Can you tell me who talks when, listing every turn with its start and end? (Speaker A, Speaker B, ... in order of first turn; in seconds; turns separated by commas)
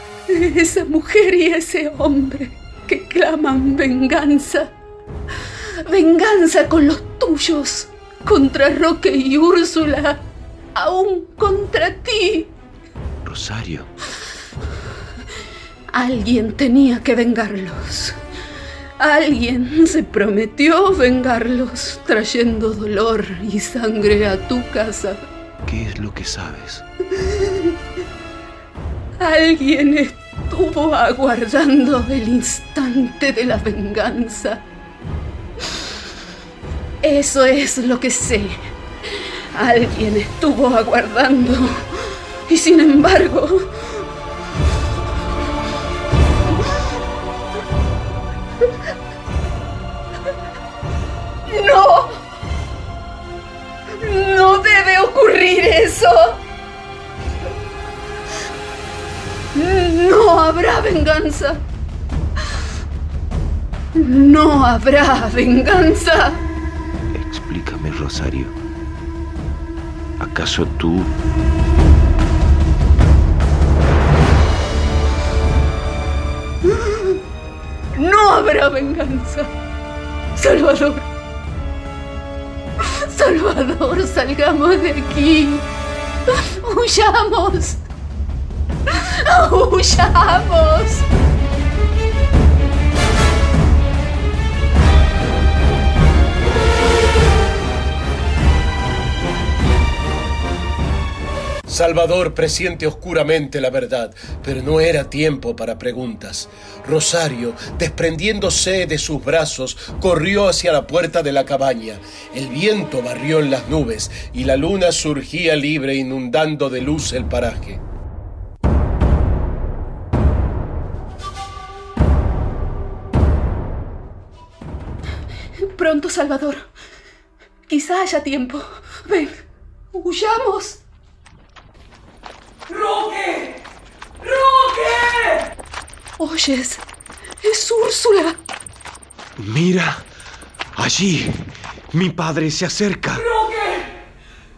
Speaker A: 0.3-4.7, Speaker A: 5.8-10.2, Speaker A: 10.7-12.5, Speaker B: 13.2-13.9, Speaker A: 15.9-18.2, Speaker A: 19.0-25.2, Speaker B: 25.6-26.8, Speaker A: 27.2-27.7, Speaker A: 29.2-34.6, Speaker A: 37.0-38.6, Speaker A: 39.2-43.6, Speaker A: 51.5-52.2, Speaker A: 54.0-56.4, Speaker A: 59.5-61.6, Speaker A: 63.9-66.4, Speaker B: 67.1-68.5, Speaker B: 70.2-71.1, Speaker A: 76.7-77.2, Speaker A: 78.0-79.5, Speaker A: 80.3-81.1, Speaker A: 82.9-85.7, Speaker A: 86.6-87.8, Speaker A: 89.2-91.0, Speaker C: 101.7-117.8, Speaker A: 125.7-126.7, Speaker A: 127.7-129.4, Speaker A: 129.9-130.8, Speaker D: 132.7-133.6, Speaker D: 134.2-135.5, Speaker A: 136.2-136.8, Speaker A: 137.4-138.4, Speaker B: 139.4-140.1, Speaker B: 140.7-143.3, Speaker D: 143.1-143.9